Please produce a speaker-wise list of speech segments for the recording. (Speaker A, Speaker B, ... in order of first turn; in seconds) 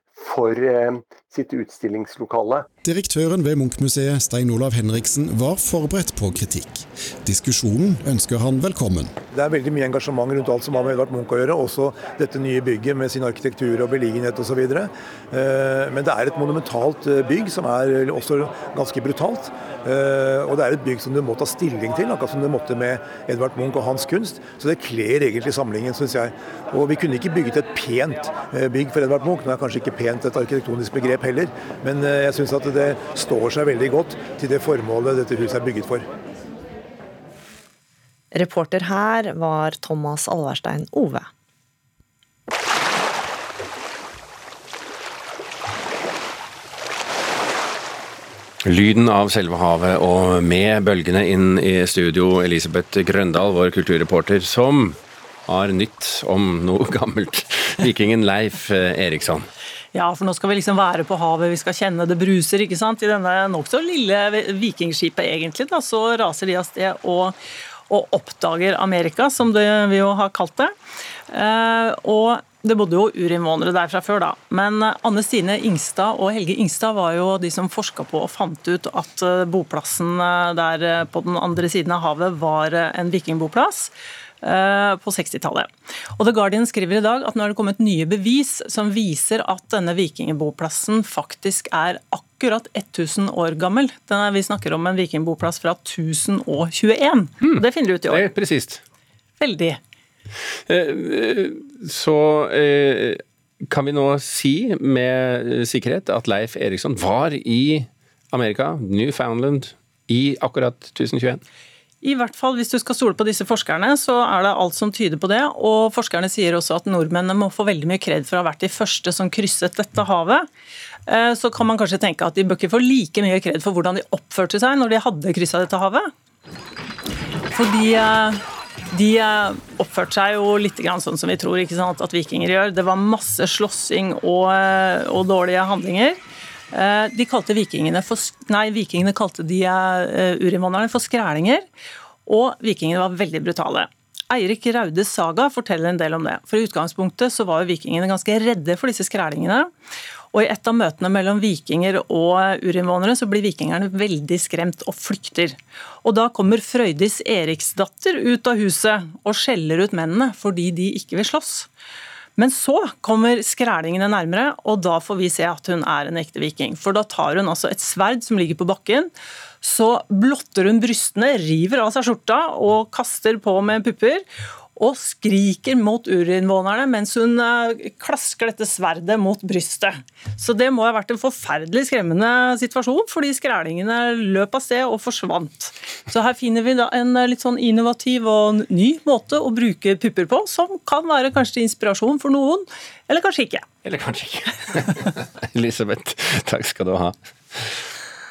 Speaker A: 0.2-2.6, 9.3-36.1
Speaker B: 2.8-9.1
Speaker C: 38.3-41.3
Speaker D: 48.6-59.5, 97.4-98.8, 100.7-111.4, 193.8-197.8
Speaker E: 60.0-67.4, 67.9-70.7, 71.3-98.3, 99.4-99.8, 112.0-120.5, 121.1-126.1, 127.5-128.4, 128.9-136.2, 136.7-141.7, 142.3-149.7, 150.3-161.7, 162.4-169.1, 169.6-174.2, 174.8-193.7